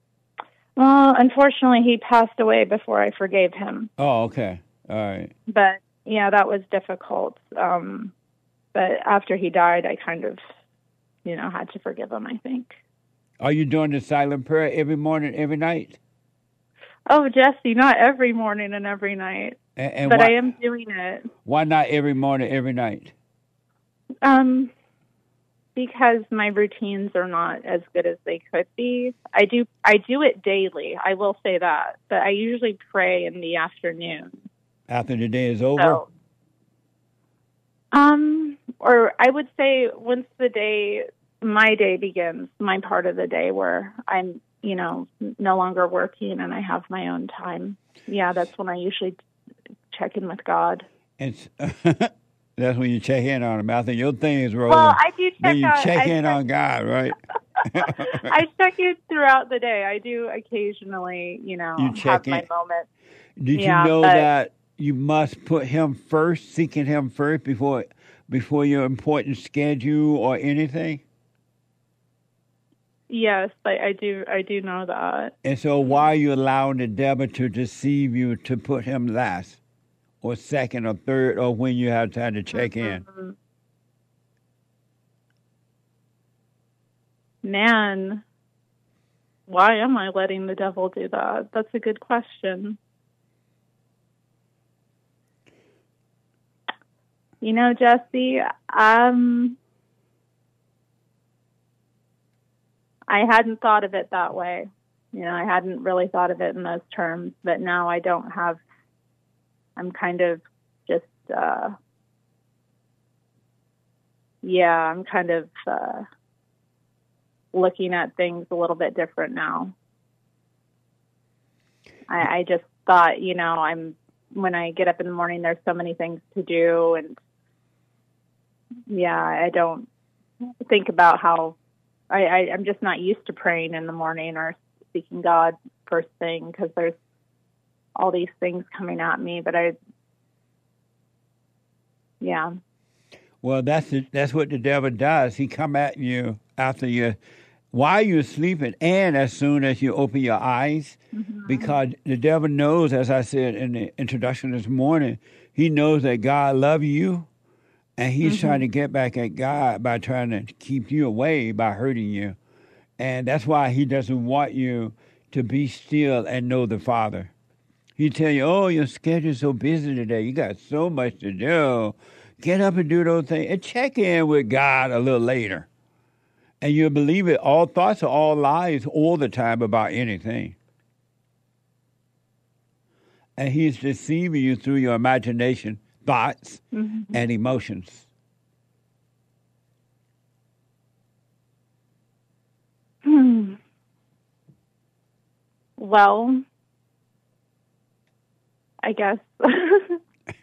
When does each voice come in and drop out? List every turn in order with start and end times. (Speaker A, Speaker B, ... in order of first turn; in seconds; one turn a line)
Speaker A: 0.8-3.9
Speaker B: 4.0-5.3
Speaker A: 5.5-8.1
Speaker A: 8.7-10.4
Speaker A: 11.2-12.8
Speaker B: 13.4-16.0
Speaker A: 17.1-21.3
Speaker B: 19.8-20.4
Speaker B: 21.4-23.1
Speaker A: 24.2-24.7
Speaker A: 25.8-34.4
Speaker B: 34.9-36.0
Speaker A: 35.8-36.1
Speaker A: 37.9-49.1
Speaker A: 49.9-50.9
Speaker B: 51.2-58.4
Speaker A: 54.7-56.4
Speaker A: 57.8-62.9
Speaker B: 61.8-62.5
Speaker B: 63.4-71.0
Speaker A: 63.5-64.3
Speaker A: 73.1-75.3
Speaker B: 75.4-79.6
Speaker B: 80.2-83.0
Speaker A: 82.5-83.3
Speaker A: 87.4-88.2
Speaker A: 89.5-92.8
Speaker A: 97.4-99.6
Speaker A: 103.1-108.6
Speaker A: 109.8-111.7
Speaker A: 114.4-116.0
Speaker A: 117.5-119.7
Speaker A: 122.1-127.2
Speaker A: 128.9-129.9
Speaker A: 130.7-131.5
Speaker A: 132.1-136.9
Speaker A: 137.9-139.7
Speaker A: 142.2-142.5
Speaker B: 143.4-147.2
Speaker B: 147.7-157.3
Speaker A: 151.1-151.8
Speaker B: 158.0-162.4
Speaker A: 158.2-158.6
Speaker B: 163.0-167.3
Speaker B: 168.0-175.7
Speaker B: 176.6-180.5
Speaker B: 183.4-188.1
Speaker A: 186.7-187.1
Speaker A: 193.0-193.6
Speaker A: 195.8-196.4
Speaker A: 198.8-200.0